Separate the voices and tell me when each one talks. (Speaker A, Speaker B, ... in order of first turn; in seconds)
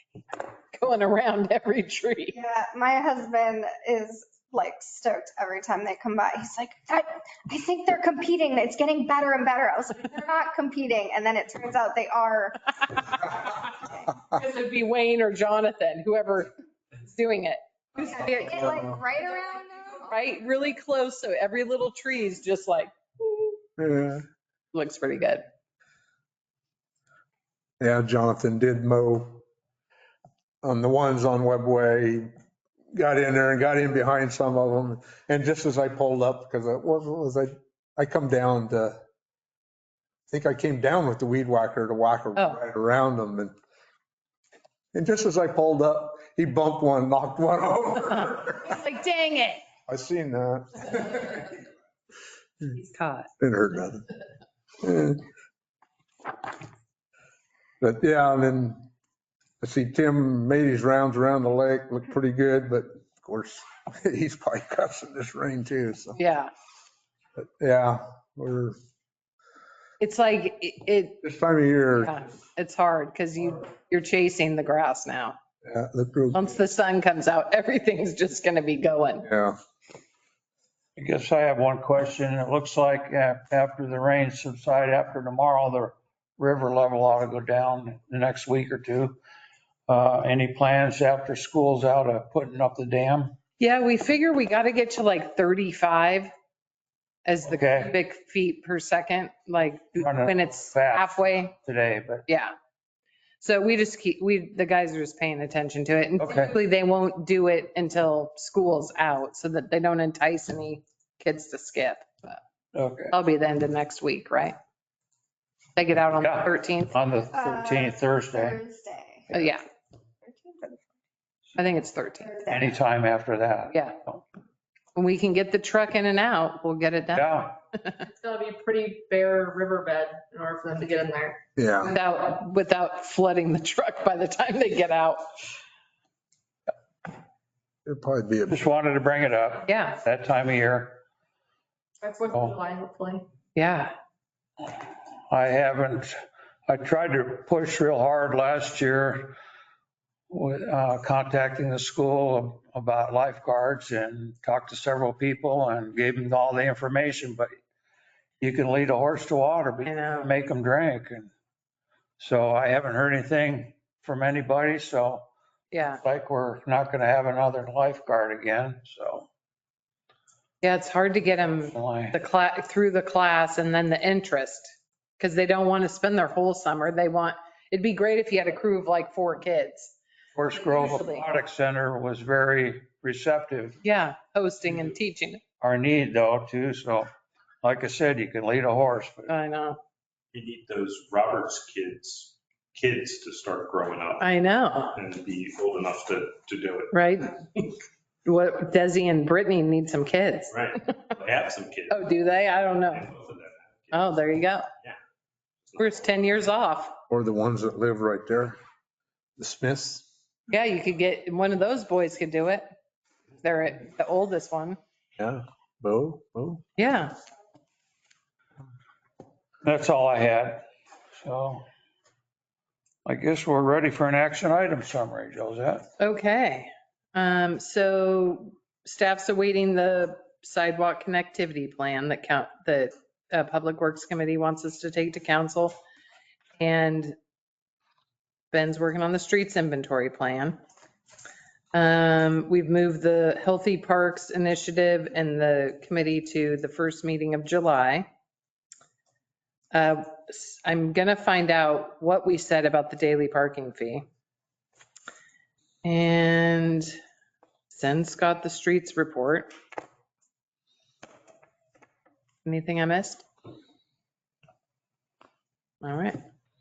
Speaker A: 0.3-2.4, 14.3-16.5, 17.0-18.8, 20.0-23.6, 24.7-25.4, 42.4-42.6, 48.4-49.6, 52.7-53.3, 66.2-66.5, 70.0-71.2, 71.9-75.3, 76.3-79.3, 93.6-96.3, 97.2-101.5, 102.3-102.5, 103.4-112.4, 113.1-114.5, 115.8-117.0, 119.3-119.6, 121.5-122.3, 124.9-128.0, 131.8-135.2, 139.7-139.9, 143.6-143.9, 159.8-160.3, 165.7-166.0, 170.6-179.9, 180.6-181.2, 183.8-185.4, 189.3-189.8, 194.2-194.9, 196.9-197.4, 198.2-200.5, 201.9-203.1, 203.9-204.7, 205.8-206.9, 210.5-212.7, 213.4-214.8, 216.8-217.1, 226.0-235.8, 236.6-237.2, 238.5-240.6, 241.7-248.1, 249.7-254.0, 255.8-256.9, 257.7-259.5, 262.4-263.2, 265.8-266.2
Speaker B: 2.3-13.2, 18.0-20.0, 117.3-119.2, 120.2-120.9, 122.3-122.7
Speaker C: 18.5-18.9, 23.8-24.2, 27.8-29.4, 30.6-32.3, 32.9-39.0, 40.3-43.5, 44.9-48.6, 49.9-51.5, 53.4-54.1, 54.8-55.2, 57.8-58.9, 59.6-66.2, 67.4-68.8, 71.2-72.2, 75.6-76.5, 79.2-79.5, 131.6-131.9, 137.8-138.6, 207.1-208.6, 209.4-210.1, 215.2-216.6
Speaker D: 81.0-89.2, 89.9-93.3, 97.5-97.9, 100.0-102.2, 106.2-106.5, 112.7-113.1, 116.1-118.6, 122.5-124.2, 127.1-127.5, 138.5-141.0, 142.3-142.6, 145.3-146.1, 146.7-149.3, 150.3-157.5, 158.4-161.3, 162.2-165.2, 165.9-169.3, 171.7-172.1, 180.3-183.8, 185.6-187.1, 187.6-189.3, 219.6-220.6, 221.2-221.6, 223.0-225.8
Speaker E: 128.1-131.4, 142.0-143.2
Speaker F: 190.3-194.3, 194.9-197.0, 200.5-204.2, 205.6-206.0